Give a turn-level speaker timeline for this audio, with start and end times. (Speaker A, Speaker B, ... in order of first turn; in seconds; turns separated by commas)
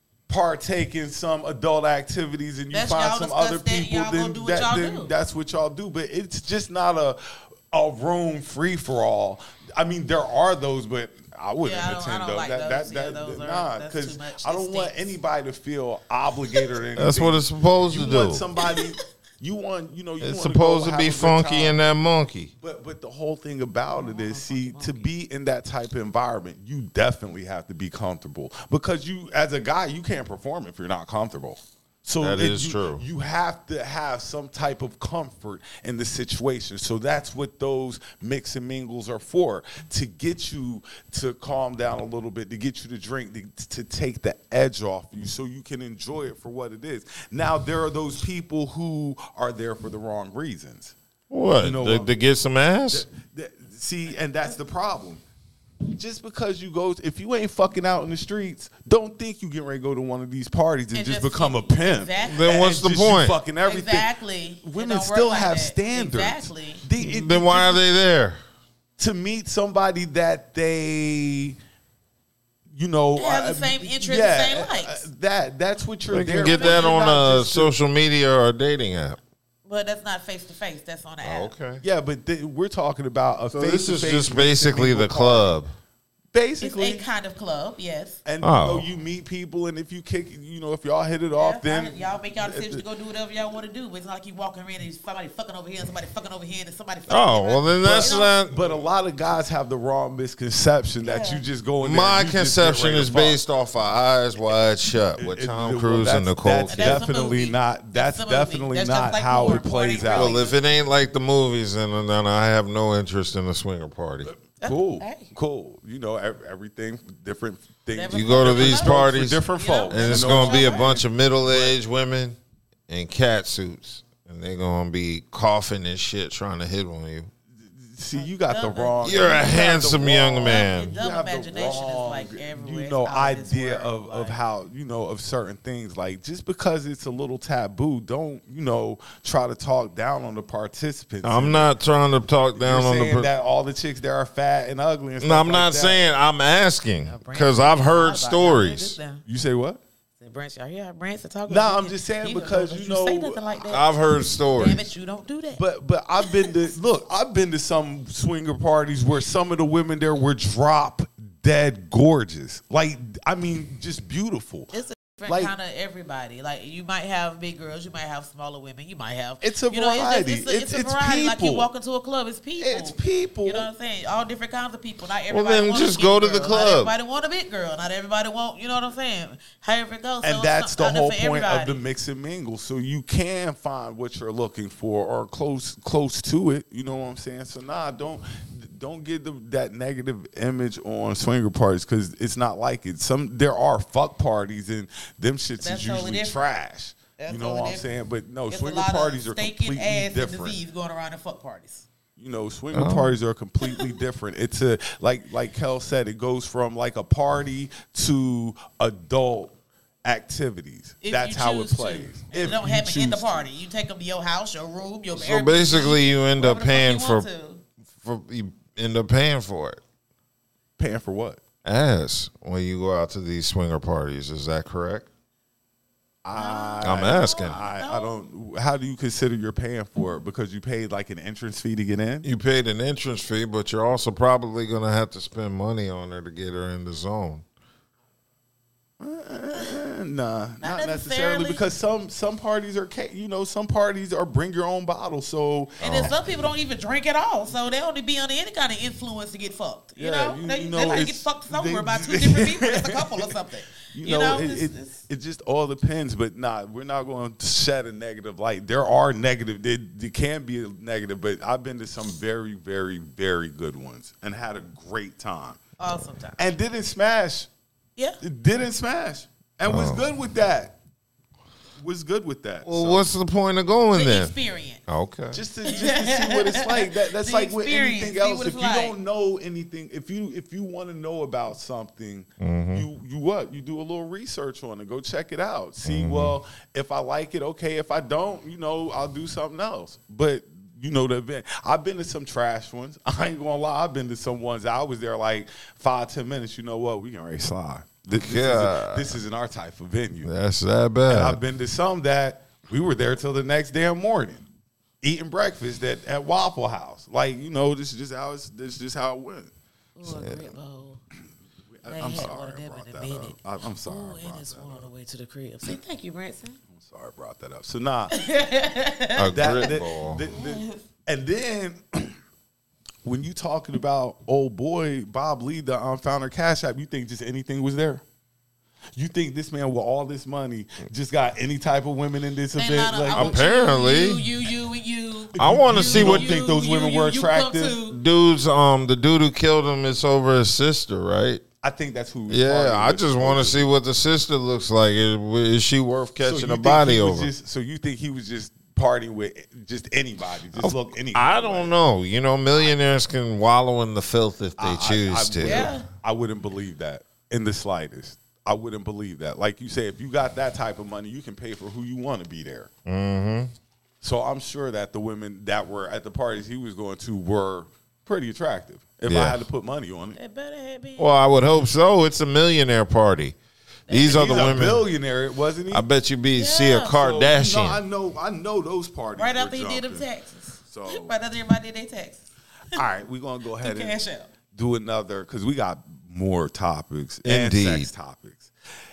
Speaker A: 0.3-21.8, Speaker B: 2.7-5.1, Speaker B: 11.6-15.1, Speaker C: 16.9-18.5, Speaker B: 18.6-18.9, Speaker C: 20.2-22.5, Speaker A: 22.6-50.9, Speaker B: 23.9-25.1, Speaker C: 32.2-33.0, Speaker C: 51.3-53.0, Speaker A: 51.6-52.1, Speaker A: 52.9-55.2, Speaker A: 55.9-64.1, Speaker B: 60.9-62.6, Speaker C: 62.2-63.4, Speaker B: 63.6-66.8, Speaker A: 64.6-67.8, Speaker C: 67.0-68.4, Speaker A: 69.0-71.5, Speaker A: 72.7-77.7, Speaker B: 73.2-75.0, Speaker C: 76.1-79.2, Speaker B: 76.4-77.0, Speaker B: 79.6-81.5, Speaker C: 81.2-81.8, Speaker A: 81.8-85.5, Speaker C: 83.5-85.7, Speaker A: 86.3-87.0, Speaker B: 86.6-88.2, Speaker A: 88.2-92.8, Speaker C: 88.4-88.8, Speaker B: 91.4-98.3, Speaker C: 97.1-98.7, Speaker A: 97.8-103.4, Speaker B: 101.0-101.4, Speaker C: 101.8-107.1, Speaker A: 105.2-110.3, Speaker B: 106.7-110.6, Speaker C: 110.0-114.3, Speaker B: 114.6-115.3, Speaker A: 114.6-121.8, Speaker B: 117.9-121.0, Speaker C: 118.1-127.3, Speaker A: 127.6-141.7, Speaker B: 128.1-129.7, Speaker C: 129.0-131.0, Speaker B: 130.4-134.4, Speaker C: 141.2-143.3, Speaker A: 142.6-146.0, Speaker C: 145.2-149.0, Speaker B: 147.0-149.2, Speaker A: 149.2-149.8, Speaker B: 150.2-155.6, Speaker A: 151.5-153.8, Speaker C: 153.7-154.9, Speaker A: 155.5-164.7, Speaker B: 156.2-156.5, Speaker B: 164.7-181.8, Speaker A: 165.3-165.5, Speaker A: 169.4-171.7, Speaker A: 172.6-173.7, Speaker C: 175.3-176.9, Speaker A: 180.2-200.6, Speaker B: 195.6-196.4, Speaker B: 197.2-197.9, Speaker B: 198.5-201.8, Speaker A: 202.2-213.5, Speaker C: 202.7-203.1, Speaker B: 203.6-203.9, Speaker B: 211.0-217.6, Speaker C: 215.1-217.3, Speaker C: 218.0-219.8, Speaker A: 220.8-221.4, Speaker C: 221.6-225.1, Speaker A: 226.2-232.3, Speaker B: 226.3-228.2, Speaker C: 226.8-227.6, Speaker C: 232.2-237.4, Speaker A: 239.0-246.1, Speaker B: 240.6-241.6, Speaker C: 245.8-246.1, Speaker B: 245.8-255.0, Speaker A: 250.0-253.3, Speaker A: 253.9-265.6, Speaker B: 265.8-266.4, Speaker A: 266.4-267.5, Speaker A: 268.2-270.7, Speaker C: 269.6-270.0, Speaker A: 271.8-273.1, Speaker C: 272.6-274.3, Speaker B: 273.9-274.8, Speaker C: 274.9-275.4, Speaker A: 275.3-300.3, Speaker B: 275.6-278.9, Speaker C: 282.4-282.9, Speaker C: 285.8-286.4, Speaker C: 298.2-299.2, Speaker C: 300.2-301.4, Speaker A: 301.1-304.4, Speaker A: 305.0-309.5, Speaker B: 310.0-311.0, Speaker C: 310.0-310.5, Speaker A: 311.7-314.9, Speaker B: 311.9-316.6, Speaker A: 316.7-318.1, Speaker B: 318.1-319.8, Speaker C: 319.1-320.2, Speaker A: 319.3-322.1, Speaker B: 320.3-320.8, Speaker A: 323.0-328.0, Speaker A: 328.9-333.4, Speaker B: 332.6-338.0, Speaker C: 333.1-334.2, Speaker A: 335.3-337.8, Speaker C: 335.4-336.4, Speaker C: 337.9-341.4, Speaker A: 341.6-343.7, Speaker C: 342.3-347.3, Speaker A: 346.2-351.7, Speaker C: 350.6-355.7, Speaker A: 354.6-362.7, Speaker B: 355.4-355.9, Speaker C: 362.9-363.5, Speaker A: 364.0-370.2, Speaker C: 369.1-369.4, Speaker B: 370.1-371.2, Speaker C: 371.0-373.4, Speaker B: 373.9-374.6, Speaker C: 373.9-374.9, Speaker A: 374.0-375.9, Speaker C: 375.7-377.8, Speaker B: 376.3-377.0, Speaker A: 376.9-380.1, Speaker B: 379.1-382.2, Speaker A: 380.6-381.1, Speaker A: 382.7-383.9, Speaker B: 383.6-384.3, Speaker A: 384.5-388.5, Speaker C: 387.2-387.9